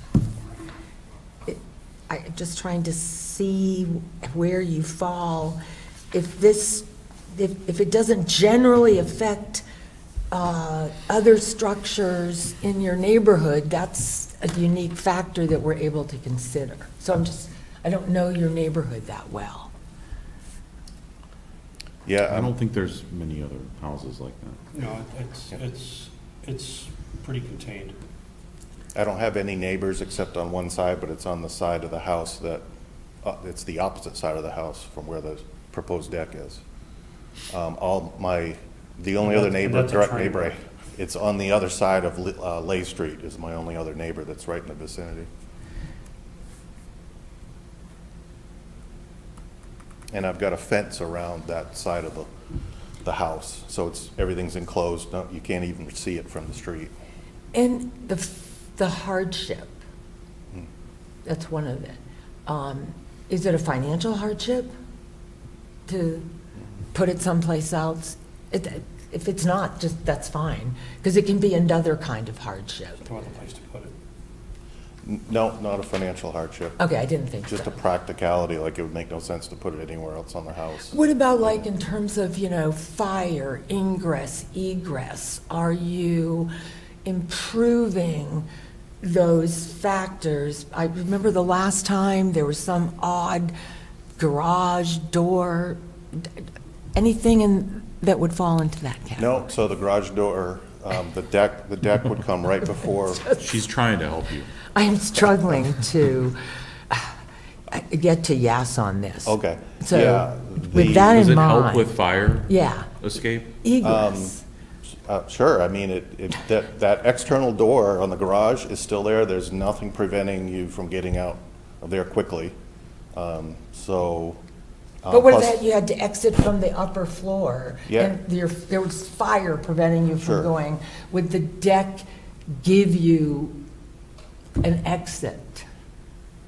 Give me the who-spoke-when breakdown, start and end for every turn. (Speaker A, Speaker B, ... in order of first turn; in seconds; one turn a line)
Speaker A: 1.4-5.6
Speaker A: 6.1-9.6
Speaker A: 10.3-19.7
Speaker B: 22.1-22.5
Speaker C: 22.3-24.6
Speaker D: 24.7-28.0
Speaker B: 28.9-32.6
Speaker B: 33.2-36.6
Speaker B: 37.5-45.3
Speaker D: 39.2-40.5
Speaker B: 50.1-52.3
Speaker B: 53.0-56.9
Speaker A: 57.5-59.8
Speaker A: 61.2-64.7
Speaker A: 65.9-66.3
Speaker A: 66.9-73.1
Speaker D: 73.0-74.0
Speaker B: 75.0-76.8
Speaker A: 76.8-77.8
Speaker B: 77.5-81.0
Speaker A: 80.9-86.5
Speaker A: 87.0-88.5
Speaker A: 89.0-93.5
Speaker A: 94.2-99.4
Speaker B: 99.2-103.3
Speaker C: 103.3-104.5
Speaker A: 104.7-106.4
Speaker A: 106.9-107.2
Speaker A: 107.7-111.9
Speaker B: 109.2-111.2
Speaker C: 111.0-113.5
Speaker A: 112.5-112.9
Speaker A: 113.6-114.4
Speaker B: 113.8-114.4
Speaker B: 115.0-122.5
Speaker B: 123.1-124.4
Speaker B: 125.0-125.6
Speaker A: 125.1-133.6
Speaker B: 127.9-128.2
Speaker B: 130.2-130.5
Speaker A: 134.6-135.7